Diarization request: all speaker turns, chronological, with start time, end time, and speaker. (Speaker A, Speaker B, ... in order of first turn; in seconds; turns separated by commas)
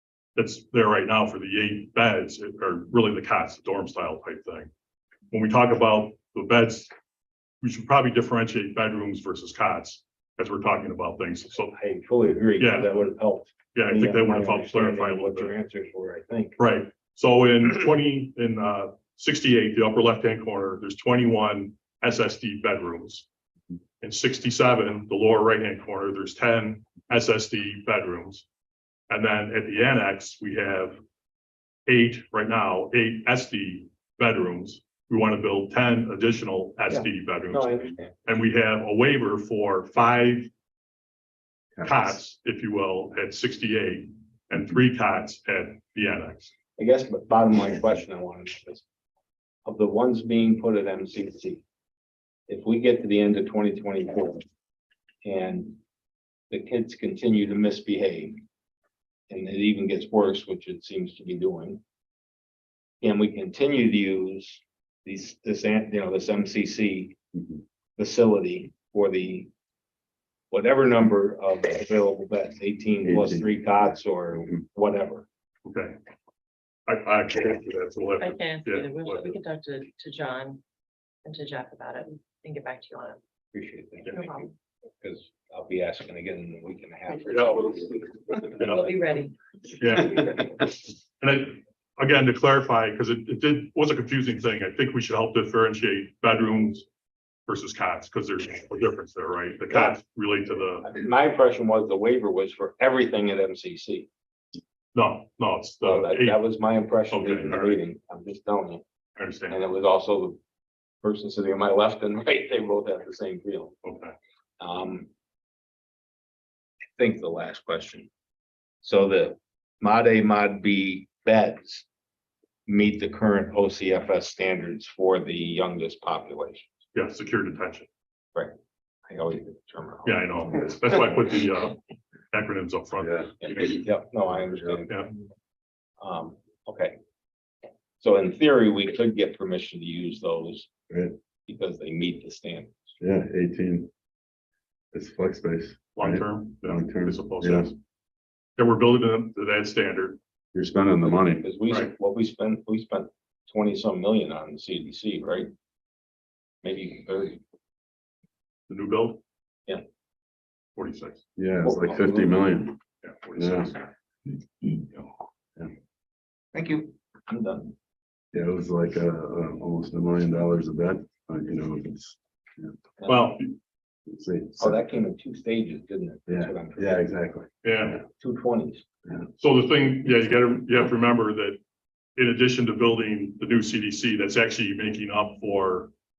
Speaker A: 0.3-4.7, Speaker A: 5.3-6.9, Speaker A: 7.6-11.7, Speaker B: 11.7-16.6, Speaker A: 12.6-12.9, Speaker A: 13.7-15.5, Speaker A: 16.6-23.2, Speaker A: 24.0-28.4, Speaker A: 29.1-31.0, Speaker A: 31.9-40.5, Speaker B: 36.9-38.1, Speaker A: 41.8-46.5, Speaker B: 46.8-48.8, Speaker B: 49.6-51.6, Speaker B: 52.5-54.4, Speaker B: 55.2-55.8, Speaker B: 56.5-58.4, Speaker B: 59.3-61.8, Speaker B: 63.0-67.2, Speaker B: 68.0-69.5, Speaker B: 70.5-75.2, Speaker C: 73.0-73.7, Speaker A: 75.6-76.0, Speaker A: 76.9-79.3, Speaker D: 78.2-80.6, Speaker D: 81.2-83.2, Speaker B: 83.5-88.9, Speaker D: 84.1-84.5, Speaker A: 87.3-87.6, Speaker A: 88.6-88.9, Speaker D: 88.6-89.3, Speaker A: 89.8-90.5, Speaker A: 91.2-96.8, Speaker A: 97.5-100.9, Speaker B: 99.7-100.0, Speaker B: 100.8-104.1, Speaker A: 104.9-106.4, Speaker B: 105.8-108.8, Speaker A: 107.1-107.8, Speaker A: 109.2-109.6, Speaker B: 109.5-110.4, Speaker B: 111.0-113.8, Speaker A: 113.8-114.1, Speaker B: 114.6-115.1, Speaker B: 117.0-118.1, Speaker B: 118.8-121.8, Speaker B: 122.7-126.8, Speaker A: 126.9-127.9, Speaker B: 129.1-130.9, Speaker A: 130.1-131.8, Speaker A: 132.3-133.9, Speaker C: 133.0-133.3, Speaker B: 133.4-134.9, Speaker B: 136.0-136.9, Speaker B: 138.0-140.7, Speaker B: 141.5-142.9, Speaker C: 143.0-143.9, Speaker C: 144.9-147.7, Speaker A: 145.9-147.8, Speaker A: 148.6-150.2, Speaker C: 150.5-151.4, Speaker B: 151.3-155.5, Speaker B: 156.6-157.4, Speaker A: 158.7-159.2, Speaker A: 160.8-161.2, Speaker C: 161.4-162.8, Speaker B: 161.6-162.4, Speaker A: 163.0-163.9, Speaker C: 163.3-163.7, Speaker A: 164.8-165.1, Speaker B: 166.5-167.7, Speaker C: 168.3-172.7, Speaker B: 173.0-173.3, Speaker A: 173.1-173.4, Speaker C: 174.1-174.8, Speaker B: 174.6-177.1, Speaker C: 176.3-178.0, Speaker A: 177.6-178.0, Speaker B: 178.1-178.8, Speaker A: 179.4-181.6, Speaker A: 182.2-185.9